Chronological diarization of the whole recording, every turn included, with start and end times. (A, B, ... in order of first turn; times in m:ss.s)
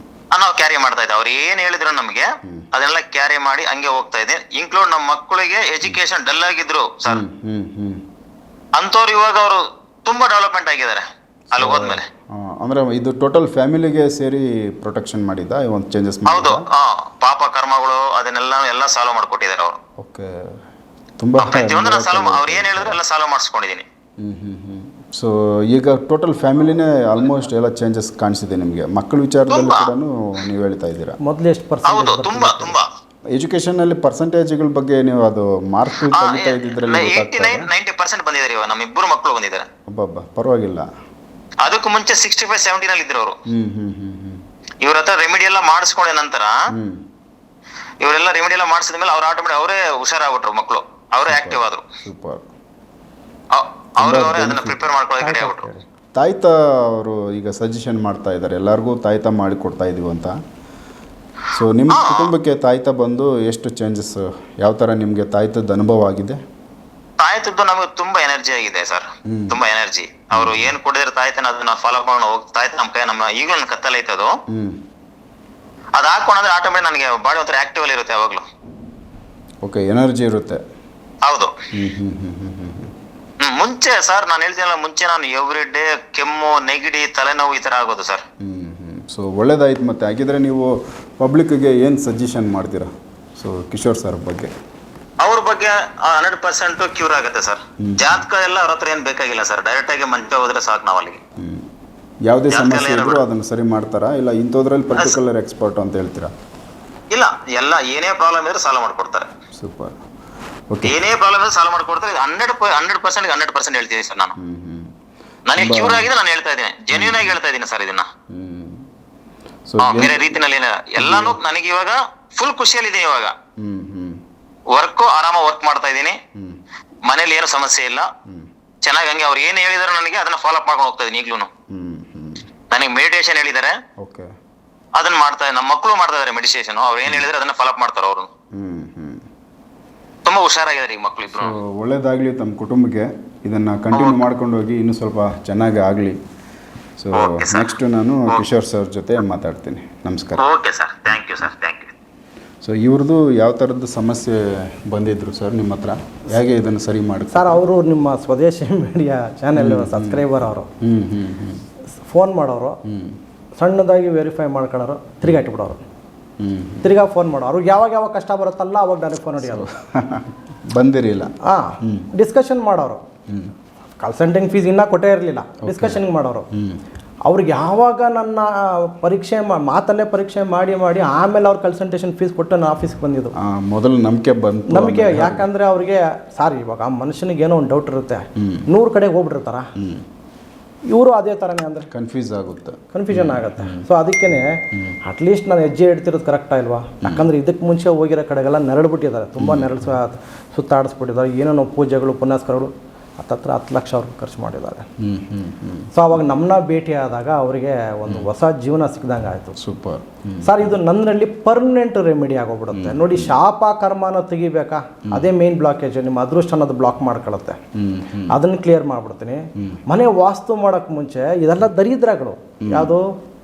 0:00.3-0:07.2 A
0:07.1-0:08.0 B
0:08.8-0:12.0 A
0:11.5-0:16.6 B
0:16.3-0:19.8 A
0:20.0-0:20.6 B
0:21.2-0:23.0 B
0:21.4-0:23.8 A
0:24.2-0:31.2 B
0:29.5-0:29.9 A
0:31.2-0:32.8 C
0:31.9-0:32.8 A
0:33.3-0:37.7 B
0:36.0-0:39.7 A
0:39.9-0:40.9 B
0:41.6-0:43.4 A
0:43.5-0:44.4 B
0:44.8-0:46.6 A
0:46.7-0:47.0 B
0:48.0-0:51.8 A
0:51.3-0:52.4 B
0:53.5-0:55.6 A
0:54.0-0:54.9 B
0:55.2-0:55.8 C
0:56.1-1:00.4 B
1:01.5-1:06.4 B
1:01.9-1:02.3 A
1:07.2-1:14.4 A
1:09.3-1:09.6 B
1:10.3-1:10.8 B
1:14.5-1:14.8 B
1:16.0-1:18.5 A
1:19.6-1:20.6 B
1:21.2-1:21.6 A
1:21.7-1:22.9 B
1:23.4-1:28.2 A
1:28.4-1:34.5 B
1:35.2-1:41.2 A
1:37.8-1:38.3 B
1:41.4-1:41.7 B
1:42.3-1:46.3 B
1:42.5-1:43.2 A
1:47.1-1:49.3 A
1:49.5-1:50.0 B
1:50.7-1:51.0 B
1:50.8-1:54.4 A
1:54.4-1:54.9 B
1:55.5-1:58.1 A
1:55.5-1:56.1 B
1:56.9-1:57.4 B
1:58.3-1:58.8 B
1:59.7-2:00.4 B
1:59.8-2:03.3 A
2:01.0-2:01.4 B
2:03.6-2:04.2 B
2:04.7-2:06.2 A
2:06.4-2:06.6 B
2:07.1-2:08.1 A
2:08.8-2:11.5 A
2:11.7-2:12.5 B
2:12.7-2:13.8 A
2:14.0-2:14.3 B
2:15.0-2:18.3 A
2:18.5-2:19.3 B
2:20.2-2:21.6 A
2:21.3-2:26.2 B
2:23.9-2:24.2 A
2:27.0-2:30.5 B
2:27.2-2:27.7 A
2:30.4-2:31.9 A
2:31.1-2:31.5 B
2:32.6-2:37.6 B
2:37.3-2:40.7 C
2:39.6-2:41.6 B
2:42.1-2:42.8 C
2:42.8-2:43.2 B
2:43.6-2:45.8 C
2:46.4-2:46.9 B
2:46.8-2:49.7 C
2:49.4-2:52.1 B
2:51.4-2:53.0 C
2:53.3-2:53.5 B
2:54.0-2:56.5 C
2:55.6-2:56.8 B
2:57.3-3:03.3 C
3:03.4-3:05.5 B
3:04.7-3:09.7 C
3:08.4-3:08.7 B
3:09.8-3:10.0 B
3:10.9-3:11.9 C
3:11.9-3:13.9 B
3:12.9-3:24.9 C
3:14.7-3:15.0 B
3:17.0-3:17.3 B
3:19.4-3:20.0 B
3:25.0-3:25.9 B
3:25.9-3:29.6 C
3:29.6-3:30.8 B
3:30.4-3:37.6 C
3:32.7-3:33.4 B
3:37.7-3:38.4 B
3:38.3-3:43.1 C
3:42.6-3:42.9 B